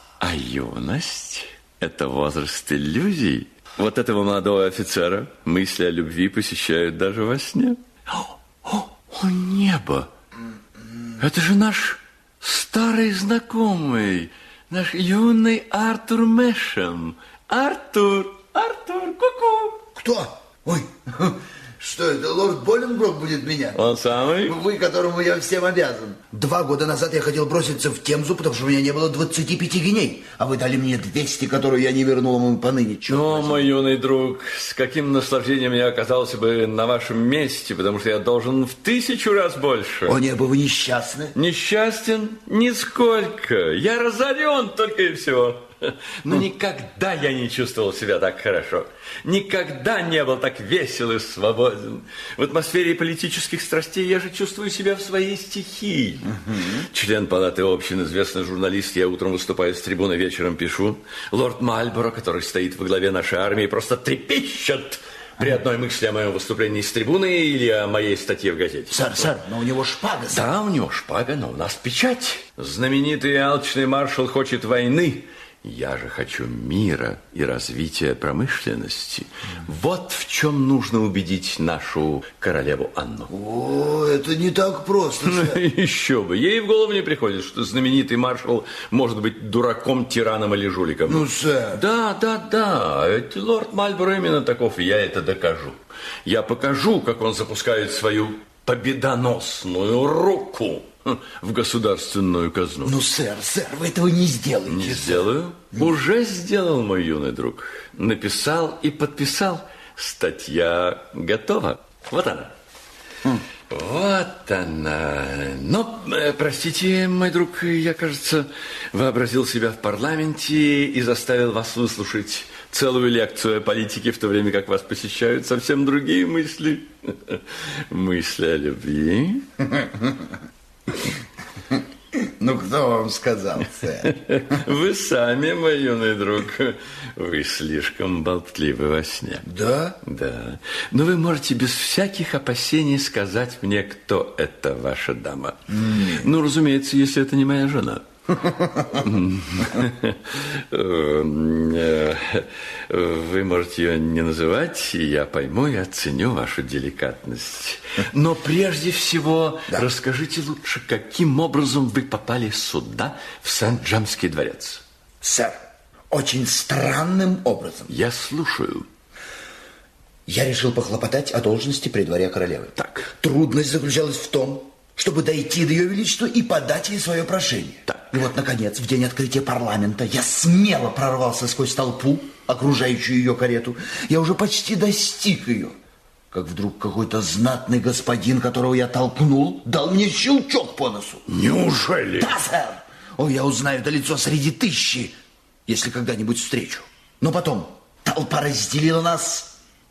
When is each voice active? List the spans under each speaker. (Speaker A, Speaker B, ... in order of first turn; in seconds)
Speaker A: 0.2-10.1, 11.2-19.8, 23.8-24.6, 33.1-40.2, 41.4-69.3, 70.3-83.3, 85.2-103.0, 104.7-112.5, 113.7-129.5, 134.0-139.4, 140.0-164.8, 167.9-168.9, 172.8-173.1, 191.3-192.3
Speaker B: 19.9-23.8, 24.4-33.7, 40.1-41.3, 56.5-56.8, 68.9-70.5, 83.3-85.6, 91.1-91.8, 102.8-106.0, 129.7-130.3, 132.2-134.1, 139.4-140.0, 145.7-146.3, 165.2-165.6, 166.1-167.9, 170.3-185.8, 186.3-191.3, 192.2-195.1, 195.7-199.5